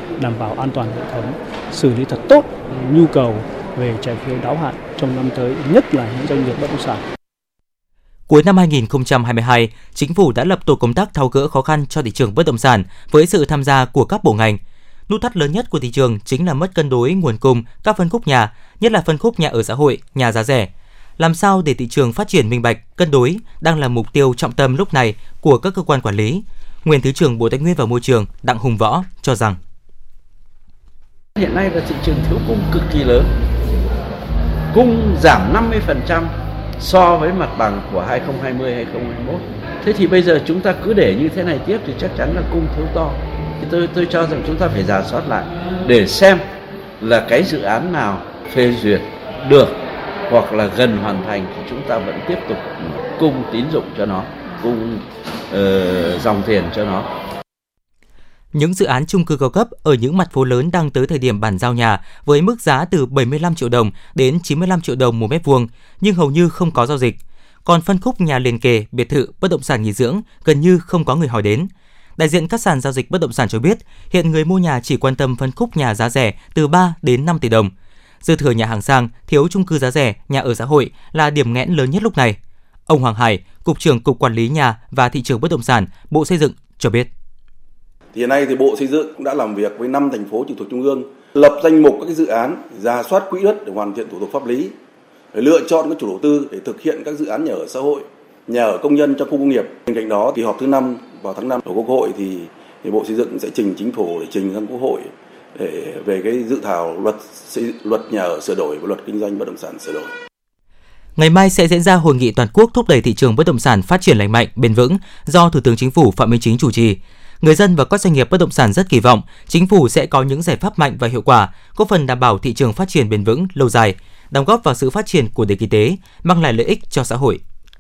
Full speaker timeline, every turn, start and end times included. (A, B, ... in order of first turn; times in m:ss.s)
0:00.2-0:07.0 A
0:08.3-0:29.6 B
0:31.4-0:33.3 C
0:34.7-0:46.4 C
0:47.0-0:57.1 C
0:58.5-1:17.7 B
1:18.2-1:27.1 B
1:28.1-1:34.7 D
1:35.3-1:50.1 D
1:51.2-2:07.4 B